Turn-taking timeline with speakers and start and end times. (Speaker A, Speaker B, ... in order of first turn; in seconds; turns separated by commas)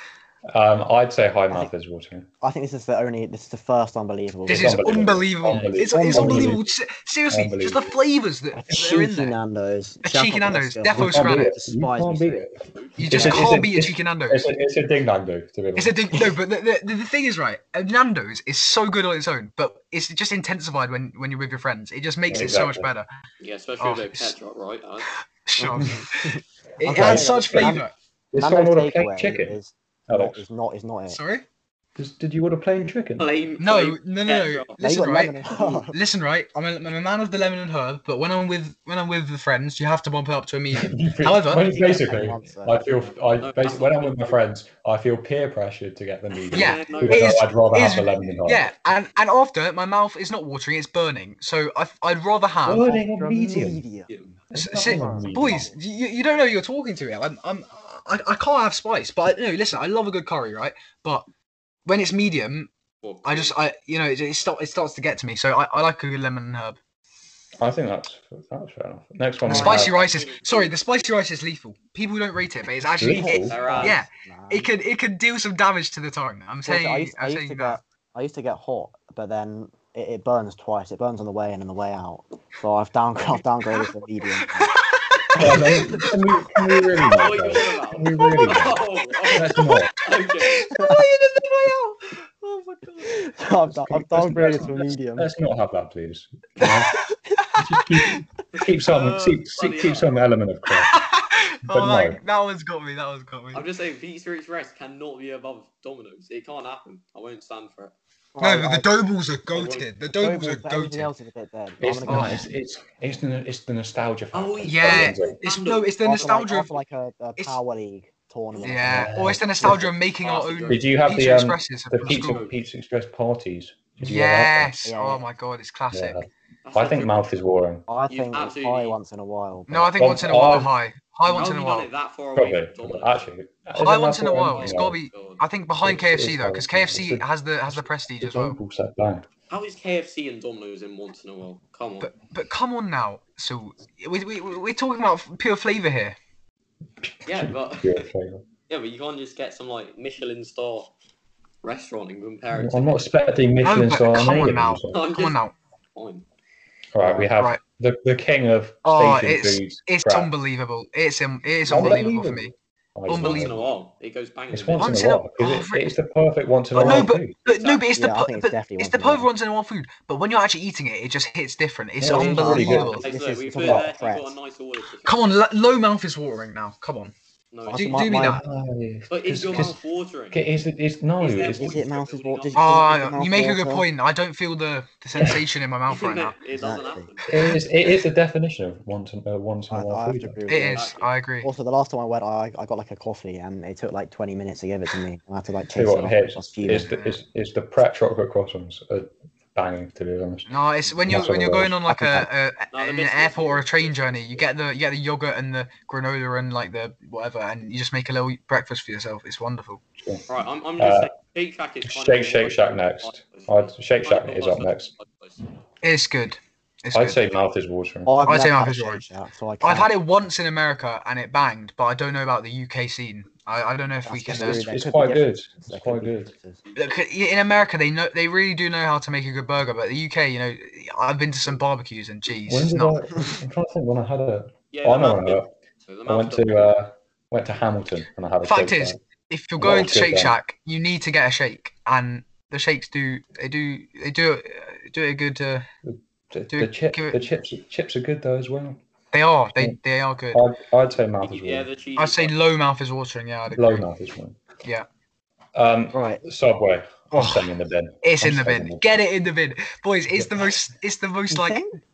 Speaker A: 0.5-2.3, Speaker B: 2.4-6.6, Speaker A: 4.5-6.6, Speaker C: 4.5-9.3, Speaker A: 7.3-7.9, Speaker B: 8.5-12.5, Speaker C: 10.0-11.5, Speaker A: 10.9-16.0, Speaker D: 12.7-13.1, Speaker C: 13.0-14.4, Speaker B: 13.1-13.5, Speaker C: 15.7-23.1, Speaker A: 22.3-22.9, Speaker D: 23.4-25.1, Speaker C: 23.8-24.3, Speaker C: 25.1-27.9, Speaker B: 25.6-27.8, Speaker A: 26.9-27.8, Speaker A: 28.3-29.6, Speaker B: 28.4-31.2, Speaker A: 30.1-30.4, Speaker C: 31.1-31.4, Speaker A: 32.0-33.3, Speaker D: 33.2-34.9, Speaker C: 33.6-41.7, Speaker B: 34.8-36.0, Speaker A: 40.7-48.7, Speaker B: 41.6-42.8, Speaker D: 43.4-44.4, Speaker D: 46.3-47.3, Speaker C: 46.5-52.9, Speaker A: 52.6-53.8, Speaker B: 52.8-54.1, Speaker D: 54.1-54.4, Speaker A: 54.5-55.7, Speaker C: 54.5-61.2, Speaker B: 54.8-55.3, Speaker C: 61.9-62.7, Speaker D: 63.0-63.5, Speaker C: 63.2-66.8, Speaker A: 67.6-69.9, Speaker B: 69.4-69.9, Speaker C: 69.5-77.8, Speaker D: 69.6-70.8, Speaker A: 73.0-73.6, Speaker B: 73.1-74.7, Speaker D: 73.5-74.0, Speaker B: 76.6-84.8, Speaker C: 83.7-86.1, Speaker B: 85.3-86.1, Speaker A: 85.3-88.8, Speaker D: 87.1-90.7, Speaker C: 88.2-88.7, Speaker C: 89.3-89.9, Speaker A: 89.3-89.9, Speaker C: 90.4-93.2, Speaker B: 90.7-91.0, Speaker B: 93.0-95.3, Speaker A: 93.7-97.0, Speaker D: 94.4-94.7, Speaker C: 97.4-98.2, Speaker A: 97.5-100.9, Speaker D: 98.5-100.1, Speaker C: 100.7-103.7, Speaker A: 101.7-102.2, Speaker D: 103.5-107.9, Speaker B: 108.3-108.9, Speaker C: 108.4-111.1, Speaker D: 109.5-109.9, Speaker B: 110.1-112.4, Speaker A: 111.8-115.4, Speaker C: 112.0-112.4, Speaker D: 114.3-115.9, Speaker C: 114.6-116.7, Speaker B: 116.0-119.9, Speaker C: 118.6-122.5, Speaker A: 118.9-119.8, Speaker D: 120.2-120.9, Speaker A: 120.7-124.8, Speaker D: 122.2-122.5, Speaker C: 124.0-126.2, Speaker B: 124.8-125.2, Speaker A: 125.9-127.9, Speaker D: 126.6-127.2, Speaker B: 127.9-130.2, Speaker D: 128.1-129.0, Speaker C: 129.7-131.9, Speaker A: 130.0-130.7, Speaker D: 131.2-133.3, Speaker A: 132.3-135.0, Speaker C: 133.7-138.6, Speaker D: 134.3-135.4, Speaker A: 135.8-139.2, Speaker D: 139.5-142.1, Speaker C: 142.0-146.2, Speaker A: 147.0-148.4, Speaker D: 147.2-148.1, Speaker D: 148.7-150.9, Speaker D: 151.6-153.0, Speaker A: 152.5-155.0, Speaker C: 153.6-155.5, Speaker D: 154.9-155.4, Speaker D: 155.9-156.2, Speaker A: 156.9-160.3, Speaker B: 157.0-157.3, Speaker C: 158.8-162.5, Speaker A: 161.7-163.6, Speaker B: 161.7-162.0, Speaker C: 163.1-163.5, Speaker D: 163.1-165.0, Speaker A: 164.5-167.3, Speaker C: 164.8-165.9, Speaker C: 166.7-173.0, Speaker B: 166.7-167.1, Speaker D: 167.4-167.8, Speaker B: 167.9-169.3, Speaker A: 172.0-173.0, Speaker B: 172.0-174.3, Speaker D: 172.8-175.2, Speaker A: 173.6-173.9, Speaker C: 175.0-177.1, Speaker D: 177.5-178.1, Speaker B: 177.7-178.4, Speaker C: 177.7-178.4, Speaker A: 178.2-179.8, Speaker D: 179.1-180.4, Speaker A: 180.3-181.8, Speaker D: 181.2-182.8, Speaker B: 181.5-183.9, Speaker C: 182.5-186.3, Speaker A: 185.2-185.4, Speaker D: 185.9-187.5, Speaker B: 186.5-187.1, Speaker A: 187.3-190.4, Speaker C: 187.3-187.6, Speaker B: 189.7-190.9, Speaker C: 190.5-191.5, Speaker D: 190.6-191.1, Speaker B: 191.4-196.9, Speaker A: 195.7-200.5, Speaker C: 196.8-197.1, Speaker C: 200.5-209.8, Speaker B: 201.0-202.3, Speaker A: 201.1-201.7, Speaker D: 202.7-204.5, Speaker D: 210.3-215.4, Speaker A: 210.8-211.1, Speaker A: 211.8-214.9, Speaker C: 215.8-217.3, Speaker A: 216.9-218.1, Speaker B: 218.1-219.9, Speaker C: 218.2-219.0, Speaker C: 219.6-224.7, Speaker B: 224.1-226.6, Speaker A: 224.3-226.3, Speaker C: 226.8-232.9, Speaker A: 232.5-235.5, Speaker D: 234.7-236.8, Speaker A: 236.1-239.0, Speaker C: 238.4-245.7, Speaker A: 239.6-240.3, Speaker A: 245.8-248.8, Speaker C: 246.5-247.2, Speaker C: 249.1-250.4, Speaker A: 250.3-251.7, Speaker D: 251.2-252.3, Speaker C: 252.0-253.8, Speaker A: 253.5-254.4, Speaker A: 255.5-258.8, Speaker B: 255.9-256.2, Speaker C: 257.1-257.5, Speaker C: 258.0-261.6, Speaker B: 261.3-261.8